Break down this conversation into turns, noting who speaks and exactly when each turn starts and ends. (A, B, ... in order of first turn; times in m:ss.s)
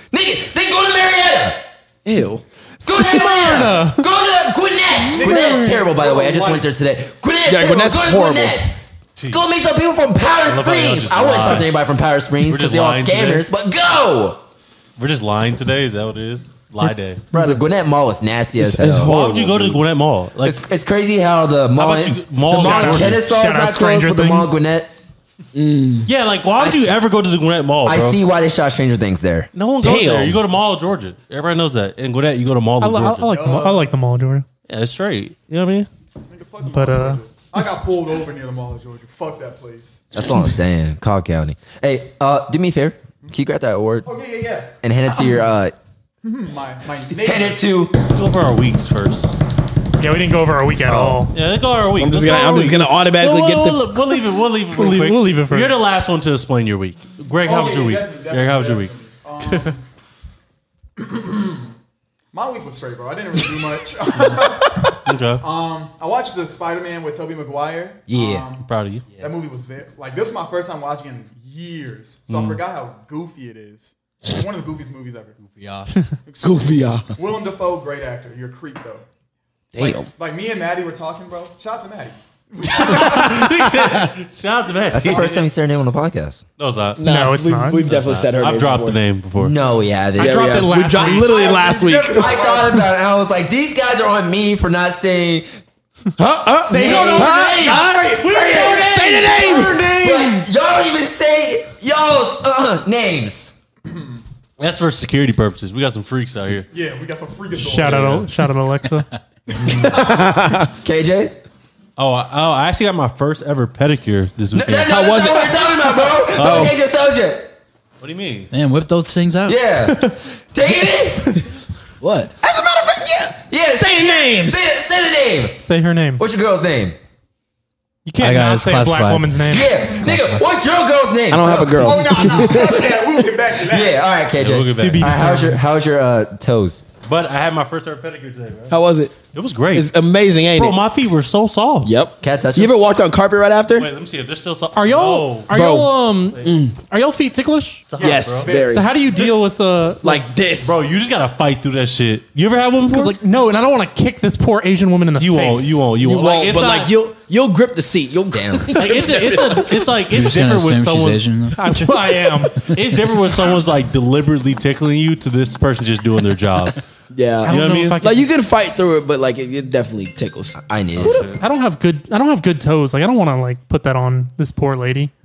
0:00.1-0:01.6 A
0:02.0-0:02.4 B
0:02.8-0:04.0 C
0:02.9-0:08.7 A
0:05.1-0:06.7 D
0:05.2-0:05.6 C
0:07.5-0:08.6 B
0:09.3-0:14.4 A
0:10.5-0:11.7 E
0:12.5-0:13.5 E
0:15.0-0:17.2 E
0:17.3-0:19.7 A
0:18.6-0:19.8 B
0:19.0-0:20.7 E
0:20.4-0:24.9 A
0:21.8-0:23.3 E
0:22.5-0:24.6 C
0:25.5-0:26.1 B
0:26.1-0:28.2 E
0:26.6-0:27.0 A
0:27.8-0:29.5 A
0:29.5-0:33.3 E
0:29.8-0:30.4 B
0:32.8-0:34.4 C
0:33.3-0:33.9 D
0:34.7-0:35.9 E
0:36.3-0:40.0 D
0:36.7-0:37.2 C
0:40.1-0:44.1 A
0:44.0-0:45.4 D
0:44.8-0:45.7 A
0:46.2-0:47.7 D
0:47.1-0:48.0 A
0:48.1-0:49.3 E
0:50.0-0:51.4 C
0:51.3-0:59.7 E
0:52.0-0:54.0 B
0:54.7-0:55.7 C
0:57.4-0:59.8 D
1:01.0-1:01.7 D
1:02.3-1:15.4 D
1:05.1-1:05.4 E
1:08.1-1:08.5 A
1:08.6-1:09.0 E
1:12.3-1:12.6 E
1:15.4-1:16.1 F
1:16.3-1:19.0 D
1:16.4-1:17.1 B
1:19.7-1:20.1 B
1:19.8-1:23.6 D
1:22.6-1:25.4 E
1:23.4-1:24.1 B
1:24.9-1:26.4 A
1:25.0-1:25.4 D
1:26.6-1:27.0 E
1:27.0-1:29.0 B
1:27.0-1:27.9 C
1:27.8-1:29.6 E
1:29.4-1:30.6 A
1:30.2-1:32.4 B
1:30.2-1:31.4 C
1:30.9-1:32.9 D
1:32.1-1:35.5 A
1:36.2-1:40.0 B
1:36.6-1:37.8 C
1:36.8-1:43.6 A
1:37.6-1:38.3 D
1:38.1-1:40.0 E
1:43.9-1:44.2 D
1:44.6-1:46.7 E
1:46.7-1:48.3 D
1:47.6-1:49.1 C
1:47.8-1:48.3 E
1:49.5-1:50.4 D
1:49.6-1:50.7 B
1:50.8-1:51.4 A
1:52.0-1:54.9 E
1:54.5-1:57.5 A
1:54.9-1:56.7 B
1:56.4-1:56.7 E
1:58.0-1:58.5 E
1:58.5-1:59.6 F
1:59.5-2:01.4 A
2:02.0-2:02.3 F
2:02.4-2:04.6 B
2:03.5-2:05.6 A
2:05.6-2:06.2 C
2:06.2-2:07.0 A
2:08.1-2:09.9 C
2:08.2-2:09.4 F
2:09.5-2:12.7 A
2:11.3-2:13.1 B
2:11.8-2:14.2 D
2:13.6-2:16.8 A
2:14.4-2:15.2 E
2:14.8-2:15.6 C
2:17.1-2:18.8 E
2:18.7-2:19.2 B
2:19.3-2:19.9 E
2:19.7-2:20.8 B
2:20.5-2:21.9 E
2:21.8-2:23.9 B
2:22.2-2:22.8 A
2:23.8-2:25.5 E
2:24.8-2:27.9 C
2:25.5-2:26.8 B
2:27.9-2:28.5 E
2:28.0-2:29.3 B
2:28.0-2:29.0 D
2:28.5-2:30.3 C
2:30.0-2:30.8 B
2:30.6-2:33.2 E
2:32.9-2:36.3 C
2:35.2-2:36.9 E
2:36.0-2:39.8 B
2:38.3-2:38.8 A
2:38.8-2:41.4 E
2:40.1-2:42.3 F
2:41.5-2:42.6 C
2:42.6-2:46.8 E
2:47.1-2:51.4 B
2:47.4-2:48.3 C
2:47.5-2:48.0 E
2:50.6-2:51.3 A
2:51.0-2:51.4 E
2:51.4-2:55.1 C